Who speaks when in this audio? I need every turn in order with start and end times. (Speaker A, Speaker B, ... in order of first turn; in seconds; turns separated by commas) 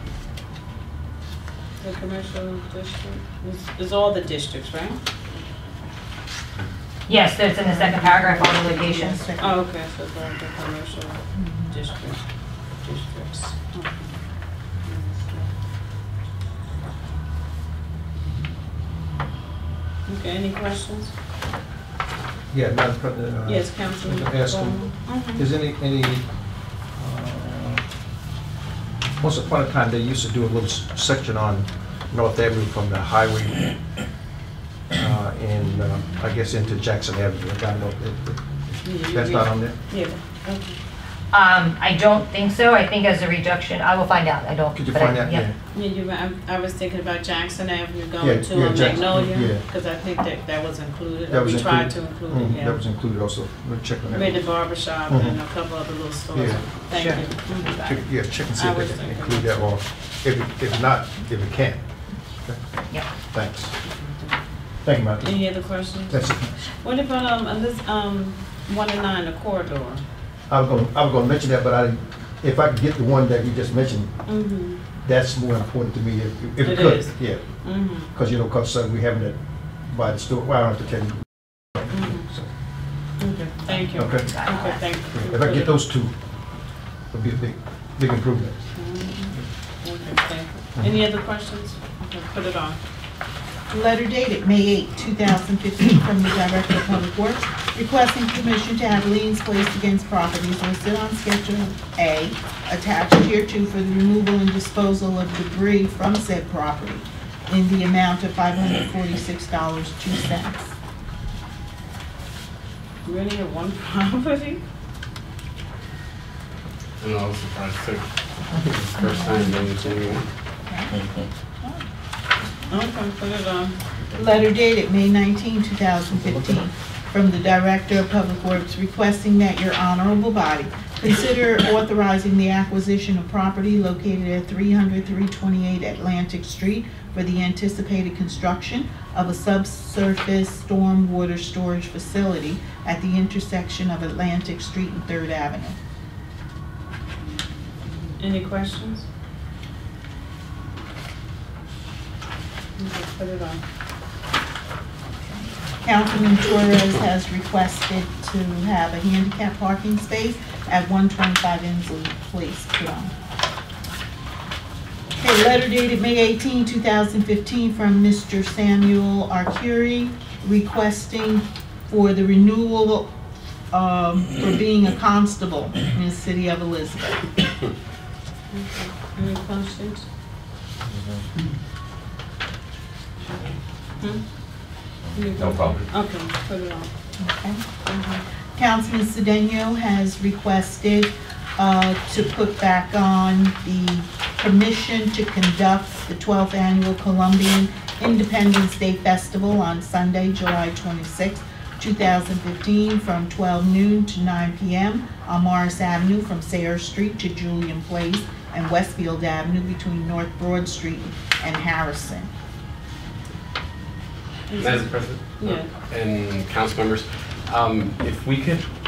Speaker A: 1.8-5.0, Speaker B: 7.1-9.3, Speaker C: 7.6-9.6, Speaker A: 9.4-12.2, Speaker C: 11.4-11.7, Speaker A: 12.8-14.2, Speaker A: 14.8-15.5, Speaker A: 20.1-21.1, Speaker D: 22.5-26.3, Speaker A: 23.4-25.4, Speaker D: 26.9-27.8, Speaker D: 29.2-33.6, Speaker D: 34.9-39.8, Speaker A: 38.8-40.8, Speaker B: 41.3-45.5, Speaker D: 44.7-45.5, Speaker A: 45.7-52.8, Speaker D: 48.2-49.6, Speaker D: 51.3-54.5, Speaker A: 54.1-59.6, Speaker D: 55.1-55.4, Speaker D: 56.3-56.6, Speaker B: 57.0-57.2, Speaker D: 57.7-61.8, Speaker D: 63.2-63.7, Speaker A: 63.9-64.4, Speaker D: 64.8-65.5, Speaker A: 65.2-66.2, Speaker D: 66.1-66.5, Speaker A: 66.8-70.0, Speaker D: 70.5-74.1, Speaker A: 74.3-74.8, Speaker D: 75.0-77.4, Speaker A: 76.6-78.1, Speaker D: 78.0-81.2, Speaker D: 81.8-82.4, Speaker A: 81.9-82.3, Speaker A: 83.2-85.8, Speaker D: 84.0-84.3, Speaker B: 84.2-84.9, Speaker D: 85.1-86.1, Speaker D: 87.1-88.5, Speaker A: 88.7-92.8, Speaker C: 93.7-110.7, Speaker A: 113.0-114.6, Speaker E: 117.0-120.2, Speaker C: 119.0-120.9, Speaker A: 122.7-123.8, Speaker C: 124.1-145.8, Speaker A: 148.2-149.1, Speaker A: 152.8-153.6, Speaker C: 155.3-163.1, Speaker C: 165.2-173.1, Speaker C: 173.7-177.3, Speaker A: 178.5-180.1, Speaker A: 185.1-186.9, Speaker D: 185.4-185.8, Speaker C: 187.2-187.6, Speaker A: 187.8-188.2, Speaker C: 188.6-212.3, Speaker A: 214.5-215.7, Speaker E: 214.6-218.7